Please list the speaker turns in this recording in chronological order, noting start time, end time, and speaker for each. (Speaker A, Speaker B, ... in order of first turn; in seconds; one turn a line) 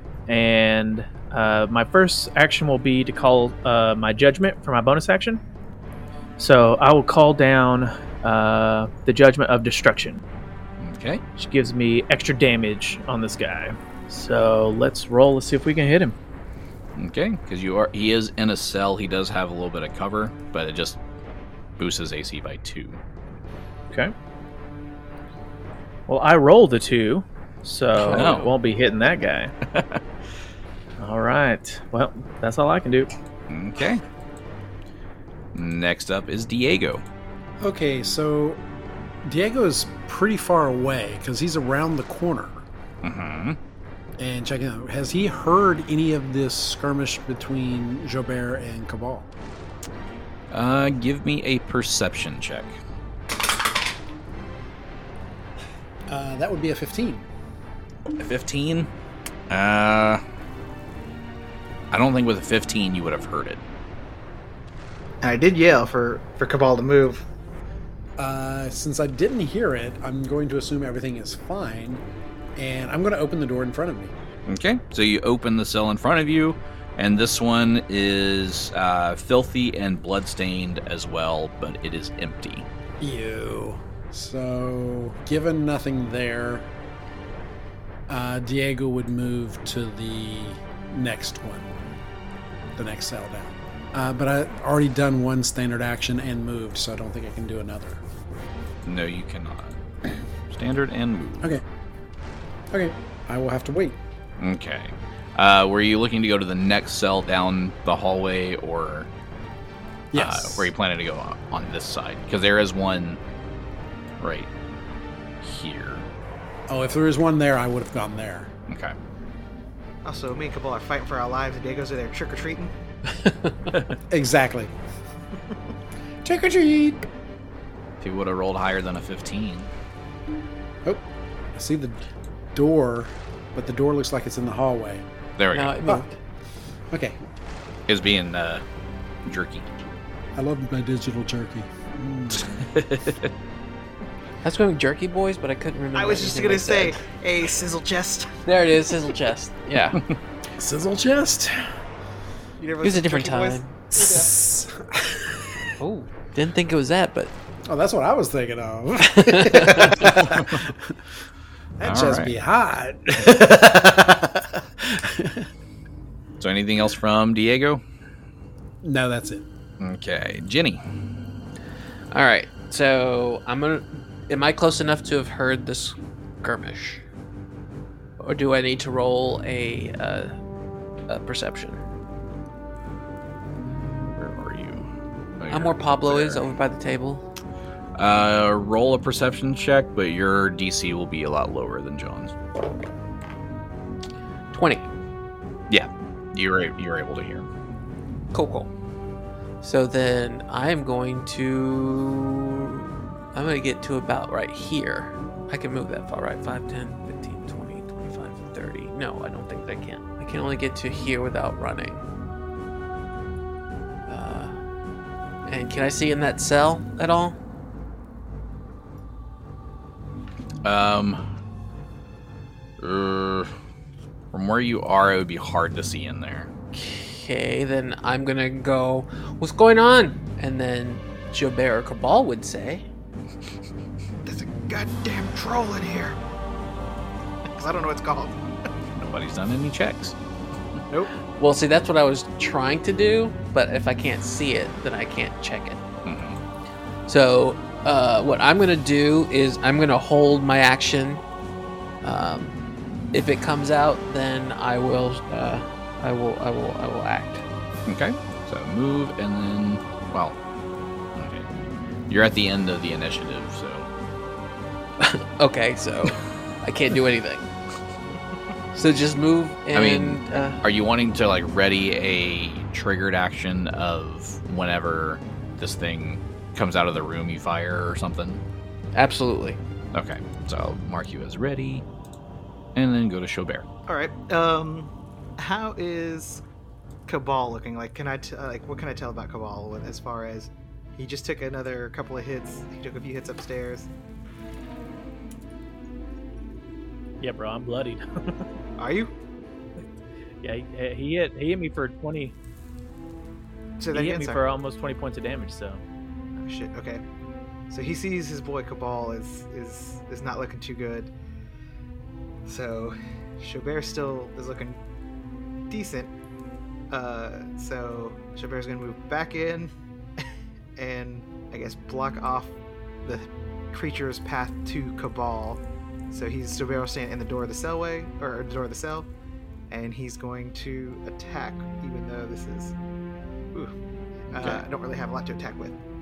Speaker A: 0.3-5.4
Speaker A: 6.4-10.2
Speaker B: 10.8-11.2
Speaker A: 11.4-16.1
Speaker B: 16.9-21.0
Speaker B: 21.8-23.0
Speaker A: 26.1-29.5
Speaker B: 28.1-28.5
Speaker B: 29.7-30.0
Speaker A: 31.0-33.1
Speaker B: 33.5-34.0
Speaker B: 35.5-37.0
Speaker C: 37.6-38.6
Speaker C: 39.2-42.6
Speaker B: 43.0-43.6
Speaker C: 44.2-49.3
Speaker B: 50.5-52.8
Speaker C: 56.1-57.2
Speaker B: 58.2-58.9
Speaker B: 59.5-60.2
Speaker B: 61.9-63.6
Speaker D: 65.2-67.2
Speaker C: 68.2-72.0
Speaker C: 72.5-74.1
Speaker B: 74.5-82.7
Speaker C: 83.0-86.7
Speaker C: 88.1-91.8
Speaker C: 92.8-98.0
Speaker B: 98.8-99.8
Speaker B: 100.5-101.6
Speaker C: 102.7-104.0
Speaker B: 104.4-109.1
Speaker C: 110.1-110.7
Speaker B: 110.1-113.2
Speaker B: 114.2-114.5
Speaker B: 115.4-116.1
Speaker C: 116.7-118.5
Speaker B: 118.7-119.0
Speaker D: 120.0-122.7
Speaker C: 124.1-124.7
Speaker C: 126.2-127.1
Speaker B: 128.0-129.7
Speaker C: 130.8-132.0
Speaker C: 132.5-135.1
Speaker B: 135.4-135.8
Speaker E: 135.5-136.1
Speaker C: 136.9-137.2
Speaker B: 137.9-138.6
Speaker B: 139.2-139.7
Speaker C: 140.3-142.7
Speaker B: 142.4-143.3
Speaker E: 144.4-147.0
Speaker D: 145.9-148.3
Speaker E: 148.4-150.0
Speaker C: 150.5-151.8
Speaker D: 152.6-154.3
Speaker E: 152.8-153.7
Speaker C: 153.9-155.7
Speaker E: 155.8-157.3
Speaker C: 157.7-161.0
Speaker E: 159.1-160.0
Speaker B: 160.1-160.6
Speaker C: 161.8-165.5
Speaker B: 161.8-162.3
Speaker B: 166.4-167.8
Speaker C: 168.8-169.5
Speaker B: 169.8-170.8
Speaker E: 172.1-177.0
Speaker E: 178.2-180.3
Speaker E: 181.1-181.8
Speaker B: 184.1-184.8
Speaker B: 185.4-186.5
Speaker E: 185.5-187.2
Speaker B: 187.9-192.3
Speaker E: 194.5-194.9
Speaker B: 195.7-197.5
Speaker E: 198.3-198.7
Speaker E: 199.6-212.0
Speaker E: 214.1-214.5
Speaker E: 215.4-217.3
Speaker B: 220.6-221.2
Speaker B: 222.8-223.5
Speaker B: 224.3-226.5
Speaker E: 226.7-232.8
Speaker D: 234.2-236.2
Speaker D: 237.6-238.4
Speaker B: 238.9-240.2
Speaker E: 241.3-245.8
Speaker B: 246.0-246.4
Speaker E: 247.1-251.2
Speaker E: 252.0-252.5
Speaker E: 253.1-257.4
Speaker B: 257.9-260.4
Speaker B: 261.1-261.5
Speaker B: 262.1-263.9
Speaker E: 265.0-267.5
Speaker E: 268.7-270.6
Speaker B: 269.7-278.4
Speaker E: 278.9-279.6
Speaker B: 279.9-281.8
Speaker B: 282.7-283.6
Speaker D: 283.9-286.4
Speaker D: 287.1-293.9
Speaker A: 297.2-298.5
Speaker D: 298.8-299.1
Speaker A: 300.4-302.3
Speaker D: 303.8-304.4
Speaker A: 303.9-305.8
Speaker D: 306.4-307.0
Speaker D: 307.7-311.1
Speaker D: 312.4-314.8
Speaker D: 315.7-316.1
Speaker D: 316.9-319.7
Speaker D: 320.8-329.1
Speaker D: 329.7-332.7
Speaker D: 334.3-335.8
Speaker B: 334.3-334.6